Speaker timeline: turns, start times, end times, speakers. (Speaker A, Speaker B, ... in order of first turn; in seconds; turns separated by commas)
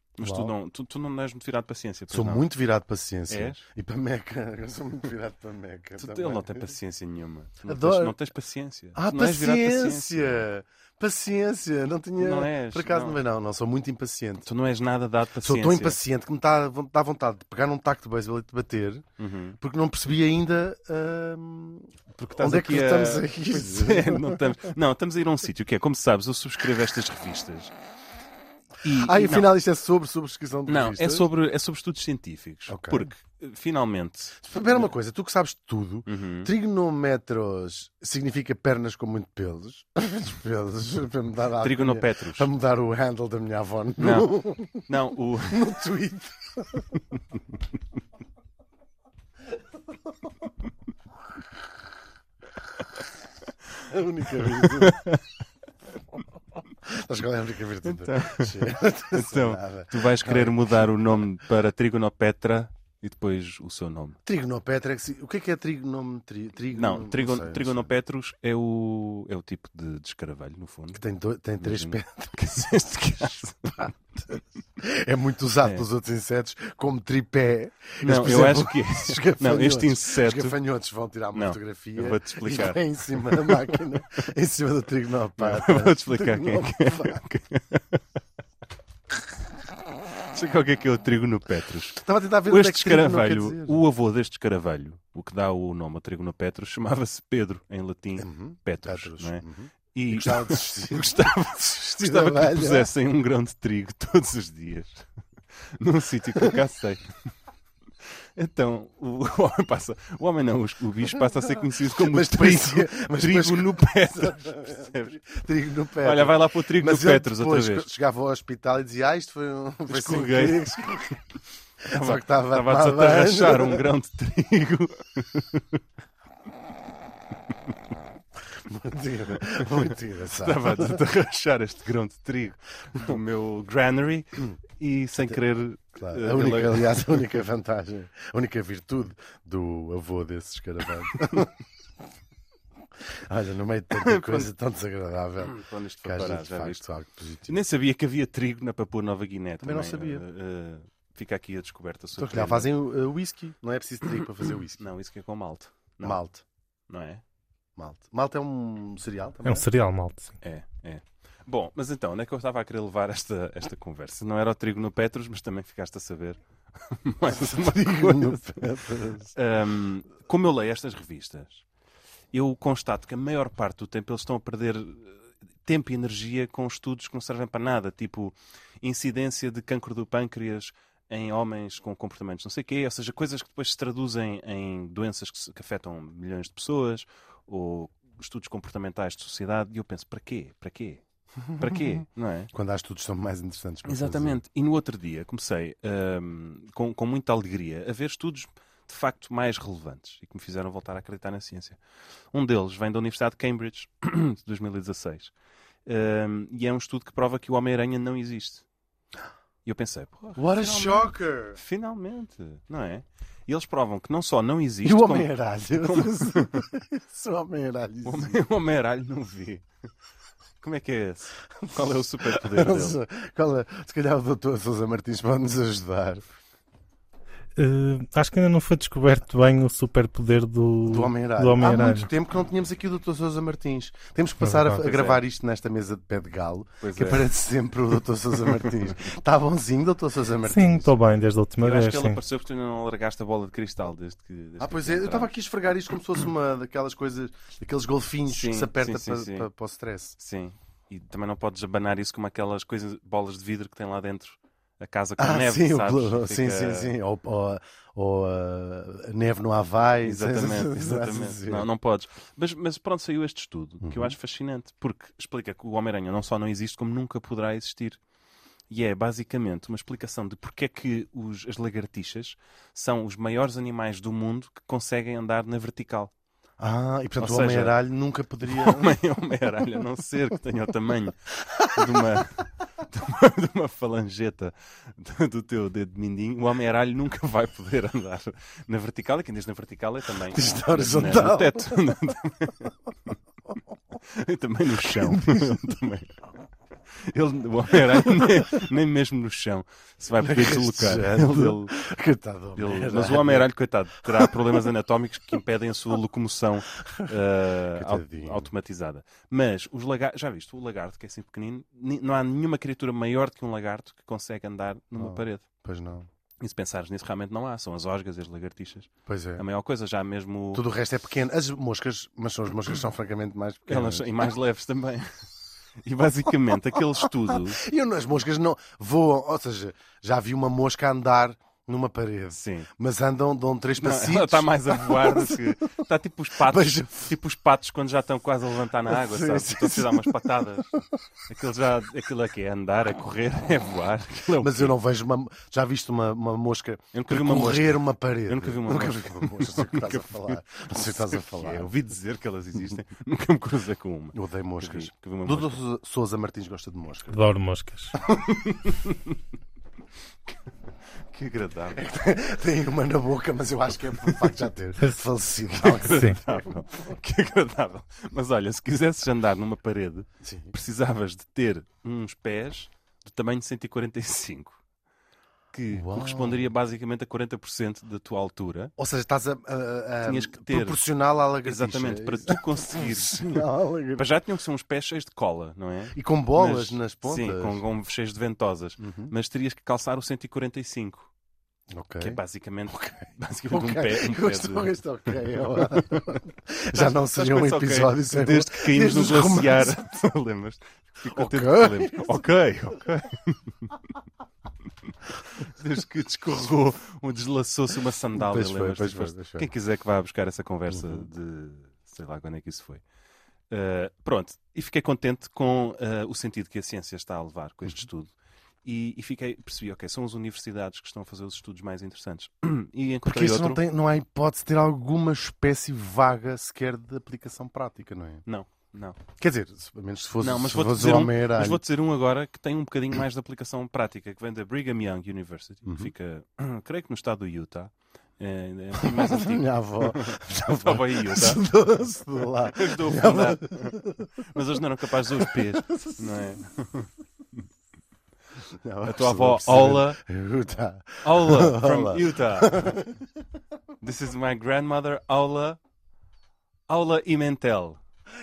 Speaker A: 0.2-2.5, Speaker B: 0.2-0.5, Speaker B: 2.1-6.7, Speaker A: 3.3-3.6, Speaker A: 6.0-10.4, Speaker B: 7.7-8.2, Speaker B: 8.9-14.5, Speaker A: 12.2-13.2, Speaker A: 14.4-16.0, Speaker B: 15.4-19.1, Speaker A: 19.2-19.6, Speaker B: 19.6-24.4, Speaker A: 22.2-27.7, Speaker A: 28.8-29.5, Speaker B: 28.9-31.2, Speaker A: 30.7-34.9, Speaker B: 32.7-33.1, Speaker B: 34.4-44.9, Speaker A: 36.1-36.5, Speaker A: 41.6-42.5, Speaker A: 44.0-45.7, Speaker B: 45.5-46.9, Speaker B: 53.8-55.0, Speaker A: 54.5-55.2, Speaker B: 56.8-60.9, Speaker A: 57.8-64.2, Speaker B: 64.2-67.9, Speaker A: 66.7-71.0, Speaker B: 70.9-72.8, Speaker A: 71.6-74.0, Speaker B: 74.8-87.2, Speaker A: 78.0-80.6, Speaker A: 81.3-83.8, Speaker A: 85.4-88.0, Speaker A: 90.3-105.0, Speaker B: 92.0-93.8, Speaker B: 98.2-102.9, Speaker A: 105.7-107.1, Speaker A: 108.3-115.2, Speaker B: 111.9-121.2, Speaker A: 116.0-117.9, Speaker A: 119.9-121.1, Speaker A: 121.8-125.8, Speaker B: 121.9-123.8, Speaker B: 128.5-131.0, Speaker A: 130.3-137.4, Speaker B: 135.9-141.5, Speaker B: 143.1-147.6, Speaker A: 143.9-144.5, Speaker A: 145.4-146.8, Speaker A: 147.5-152.7, Speaker B: 149.6-150.2, Speaker B: 152.2-154.9, Speaker A: 154.8-156.2, Speaker B: 156.0-156.4, Speaker A: 156.9-157.2, Speaker B: 157.8-159.7, Speaker C: 159.4-160.4, Speaker A: 160.4-168.7, Speaker B: 167.3-169.3, Speaker A: 169.3-171.6, Speaker A: 172.3-192.5, Speaker B: 192.5-194.4, Speaker A: 193.8-201.8, Speaker A: 202.3-205.3, Speaker A: 205.8-208.6, Speaker A: 209.6-216.7, Speaker B: 210.3-211.6, Speaker B: 214.8-218.4, Speaker A: 218.0-219.7, Speaker A: 220.6-223.0, Speaker B: 221.6-226.2, Speaker C: 227.6-232.1, Speaker B: 230.8-240.9, Speaker C: 234.4-234.8, Speaker A: 234.7-235.2, Speaker A: 236.8-237.3, Speaker C: 240.5-242.2, Speaker A: 241.6-245.3, Speaker B: 244.6-250.2, Speaker A: 248.3-249.5, Speaker A: 250.2-256.9, Speaker B: 255.2-261.7, Speaker A: 260.0-268.0, Speaker B: 263.8-264.1, Speaker A: 268.7-276.1, Speaker B: 276.6-278.9, Speaker A: 277.2-277.8, Speaker A: 278.4-281.2, Speaker B: 281.4-282.2, Speaker A: 281.7-293.1, Speaker B: 290.3-291.9, Speaker A: 294.0-296.1, Speaker B: 294.9-295.6, Speaker A: 297.0-301.8, Speaker B: 300.2-303.5, Speaker A: 302.5-315.4, Speaker B: 304.1-304.5, Speaker B: 306.8-307.1, Speaker B: 307.7-308.5, Speaker B: 315.0-316.1, Speaker A: 316.4-320.6, Speaker B: 319.1-319.4, Speaker B: 320.5-324.3, Speaker A: 323.7-325.2, Speaker A: 325.8-327.6, Speaker B: 326.7-335.5, Speaker A: 332.3-332.7, Speaker A: 333.8-344.7, Speaker B: 336.4-337.1, Speaker B: 338.9-340.8, Speaker B: 344.4-351.7, Speaker A: 346.9-355.6, Speaker B: 354.1-357.2, Speaker C: 357.1-357.9, Speaker A: 358.1-359.2, Speaker A: 361.1-361.8, Speaker B: 361.7-366.5, Speaker A: 365.6-374.6, Speaker C: 365.9-366.2, Speaker B: 370.2-370.5, Speaker A: 375.5-378.7, Speaker B: 375.7-376.5, Speaker B: 378.8-384.1, Speaker A: 380.0-380.8, Speaker A: 381.4-391.1, Speaker B: 385.9-387.6, Speaker B: 388.8-389.1, Speaker B: 391.7-399.9, Speaker A: 392.0-394.7, Speaker A: 395.4-396.2, Speaker A: 396.7-403.7, Speaker B: 401.1-402.3, Speaker A: 405.3-412.8, Speaker B: 408.1-409.5, Speaker B: 410.7-411.1, Speaker A: 413.5-418.1, Speaker A: 418.6-423.6, Speaker B: 423.0-428.2, Speaker A: 428.2-429.0, Speaker B: 429.1-431.6, Speaker A: 430.2-441.4, Speaker B: 435.6-435.9, Speaker B: 438.8-444.1, Speaker A: 442.4-446.9, Speaker B: 445.1-446.1, Speaker B: 448.5-453.1, Speaker A: 448.8-450.0, Speaker A: 451.0-452.8, Speaker A: 453.8-455.6, Speaker A: 456.7-457.8